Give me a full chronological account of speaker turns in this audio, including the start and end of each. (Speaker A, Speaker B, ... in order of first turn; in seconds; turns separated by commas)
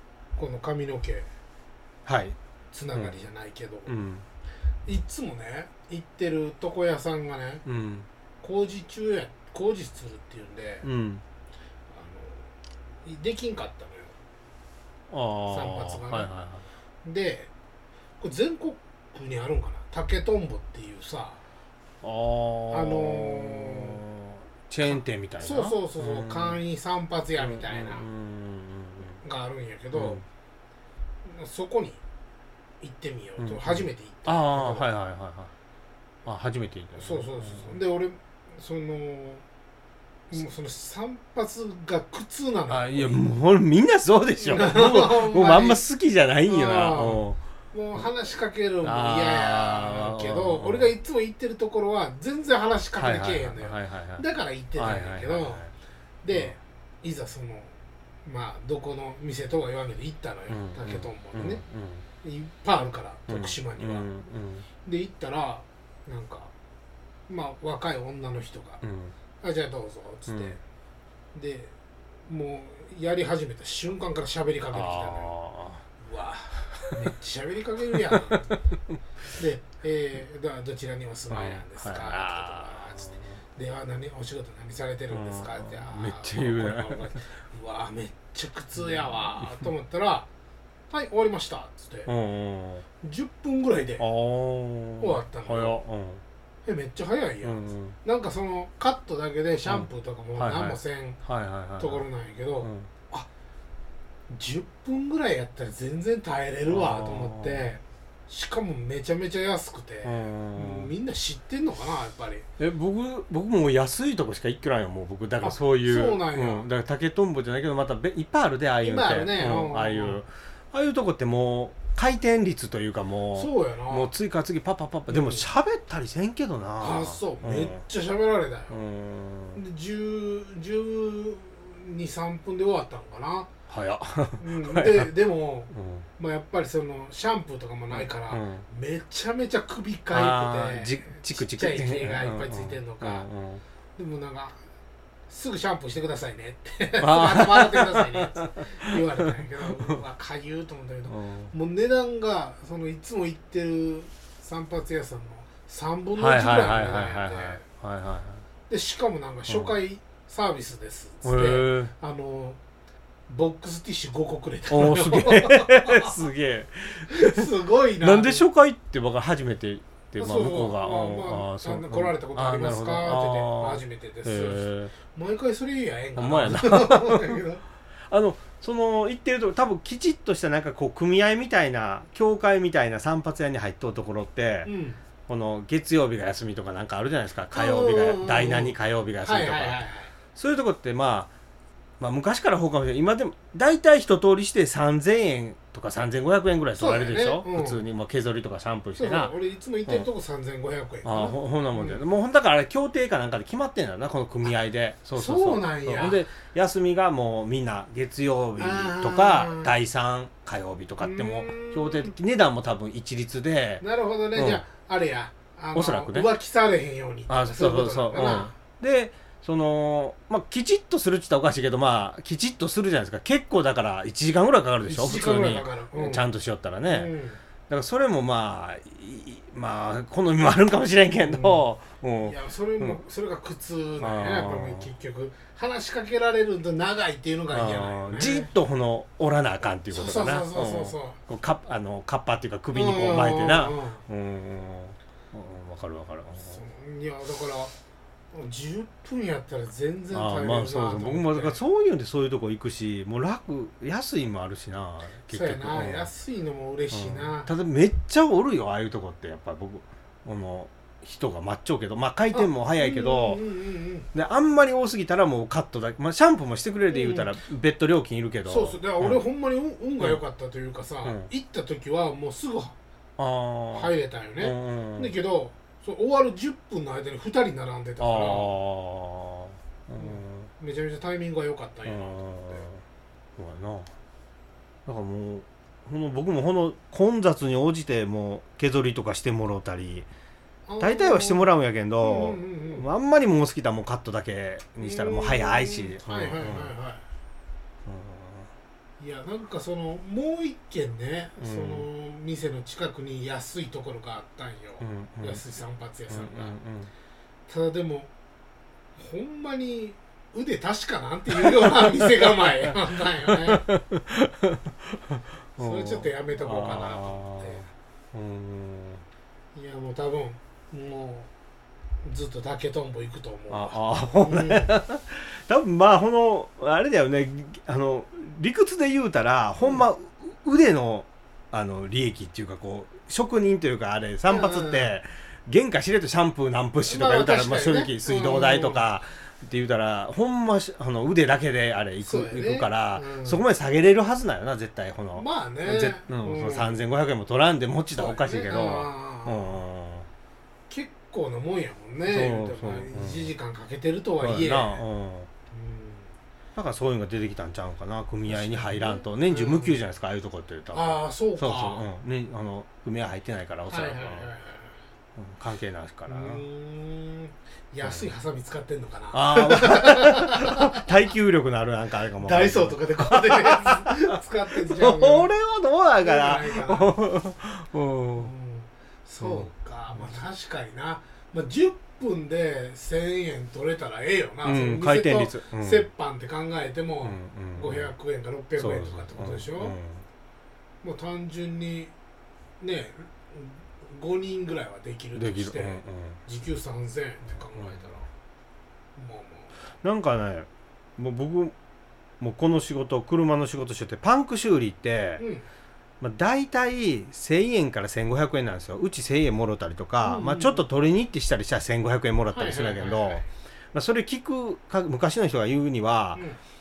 Speaker A: 0.3-1.3, Speaker B: 2.0-2.4, Speaker A: 2.7-4.0, Speaker B: 3.9-4.2, Speaker A: 4.8-7.6, Speaker B: 7.6-8.1, Speaker A: 8.4-10.9, Speaker B: 10.8-11.2, Speaker A: 11.9-14.2, Speaker B: 15.1-16.6, Speaker A: 15.5-16.3, Speaker A: 17.0-17.5, Speaker A: 18.2-21.4, Speaker B: 22.0-26.6, Speaker A: 22.7-24.0, Speaker A: 24.9-28.1, Speaker B: 27.4-29.2, Speaker A: 29.2-30.2, Speaker B: 29.9-30.2, Speaker A: 31.2-32.0, Speaker A: 32.8-34.9, Speaker B: 33.4-35.5, Speaker B: 36.2-37.8, Speaker A: 37.0-39.4, Speaker A: 40.3-43.2, Speaker B: 42.7-47.4, Speaker A: 44.4-45.8, Speaker A: 46.5-55.7, Speaker B: 48.8-50.9, Speaker B: 53.0-55.7, Speaker A: 56.2-57.7, Speaker B: 56.3-56.6, Speaker A: 58.2-61.6, Speaker B: 60.5-62.0, Speaker A: 62.2-64.1, Speaker B: 63.3-64.7, Speaker A: 64.8-66.5, Speaker A: 67.3-68.8, Speaker B: 68.8-69.1, Speaker A: 69.4-70.6, Speaker B: 70.3-70.6, Speaker A: 71.3-71.7, Speaker A: 72.3-75.3, Speaker B: 74.7-75.8, Speaker A: 76.0-78.5, Speaker B: 76.8-77.1, Speaker B: 78.1-78.6, Speaker A: 79.3-90.3, Speaker B: 81.3-83.4, Speaker B: 85.1-87.2, Speaker B: 88.8-89.7, Speaker A: 90.9-92.1, Speaker B: 92.1-92.8, Speaker A: 93.0-94.0, Speaker B: 94.0-96.2, Speaker A: 95.0-95.8, Speaker A: 96.6-101.2, Speaker B: 97.4-98.0, Speaker B: 99.7-102.0, Speaker A: 101.8-103.3, Speaker B: 102.6-102.9, Speaker A: 104.3-112.5, Speaker B: 106.7-107.7, Speaker B: 110.0-110.9, Speaker B: 112.6-127.8, Speaker A: 115.4-116.7, Speaker A: 118.8-120.2, Speaker A: 123.3-124.1, Speaker A: 125.1-125.5, Speaker A: 126.8-128.8, Speaker B: 128.7-129.6, Speaker A: 129.5-133.5, Speaker B: 133.7-135.1, Speaker A: 134.4-143.3, Speaker B: 135.7-136.1, Speaker B: 137.9-138.6, Speaker B: 140.1-143.6, Speaker A: 144.0-144.6, Speaker A: 145.3-157.6, Speaker B: 147.0-149.9, Speaker B: 151.1-151.5, Speaker B: 156.2-158.4, Speaker A: 158.7-162.6, Speaker B: 159.5-159.8, Speaker B: 161.2-161.9, Speaker A: 163.3-166.1, Speaker B: 164.7-167.5, Speaker A: 167.1-168.4, Speaker B: 168.0-174.9, Speaker A: 170.2-177.6, Speaker B: 176.2-177.4, Speaker B: 178.1-184.7, Speaker A: 184.6-185.0, Speaker B: 185.3-189.8, Speaker A: 187.5-190.1, Speaker B: 190.3-191.3, Speaker B: 192.0-199.3, Speaker A: 196.8-197.8, Speaker A: 199.0-202.0, Speaker B: 201.0-213.8, Speaker A: 205.1-206.2, Speaker A: 208.6-209.7, Speaker A: 211.0-212.1, Speaker A: 213.8-218.5, Speaker B: 214.3-214.6, Speaker B: 215.7-216.3, Speaker B: 217.3-227.1, Speaker A: 224.8-226.2, Speaker A: 226.9-227.4, Speaker B: 227.7-233.0, Speaker A: 231.2-231.6, Speaker A: 232.2-238.5, Speaker B: 234.0-234.9, Speaker B: 237.5-246.6, Speaker A: 239.9-241.2, Speaker A: 242.7-244.0, Speaker A: 246.4-247.7, Speaker A: 248.3-251.6, Speaker B: 250.1-256.1, Speaker A: 255.3-257.5, Speaker B: 256.9-263.4, Speaker A: 262.3-264.1, Speaker B: 264.1-269.2, Speaker A: 266.9-267.3, Speaker A: 268.4-272.8, Speaker B: 271.0-271.3, Speaker B: 273.2-275.1, Speaker A: 273.7-278.5, Speaker B: 278.0-280.5, Speaker A: 280.0-282.6, Speaker B: 281.9-282.8, Speaker B: 283.4-283.9, Speaker B: 284.9-290.1, Speaker A: 290.7-291.5, Speaker B: 290.8-296.7, Speaker A: 292.0-292.9, Speaker A: 294.8-297.0, Speaker B: 297.9-298.5, Speaker A: 299.0-306.6, Speaker B: 301.4-301.9, Speaker B: 304.8-305.4, Speaker B: 306.1-306.9, Speaker A: 307.5-308.1, Speaker A: 308.9-313.7, Speaker B: 311.3-319.0, Speaker A: 315.6-317.6, Speaker A: 319.5-321.3, Speaker A: 322.0-324.7, Speaker B: 323.5-350.1, Speaker A: 334.3-334.9, Speaker A: 336.9-338.8, Speaker A: 342.0-343.4, Speaker A: 345.1-346.8, Speaker A: 347.9-349.6, Speaker A: 350.7-354.9, Speaker B: 352.1-353.3, Speaker B: 354.2-355.3, Speaker A: 355.5-356.1, Speaker B: 356.5-364.3, Speaker A: 358.3-359.8, Speaker A: 360.7-361.8, Speaker A: 363.7-364.7, Speaker B: 365.1-366.4, Speaker A: 366.1-370.9, Speaker B: 367.8-368.1, Speaker B: 369.1-378.3, Speaker A: 372.2-375.3, Speaker A: 376.0-376.9, Speaker A: 378.2-389.8, Speaker B: 379.2-380.2, Speaker B: 384.4-385.9, Speaker B: 387.0-387.9, Speaker B: 388.6-390.0, Speaker A: 390.8-391.9, Speaker A: 392.6-398.1, Speaker B: 395.1-396.2, Speaker B: 397.3-397.9, Speaker A: 398.9-399.5, Speaker B: 399.8-401.5, Speaker B: 402.2-405.2, Speaker A: 405.2-405.4, Speaker B: 406.0-416.2, Speaker A: 410.0-410.6, Speaker A: 412.3-413.2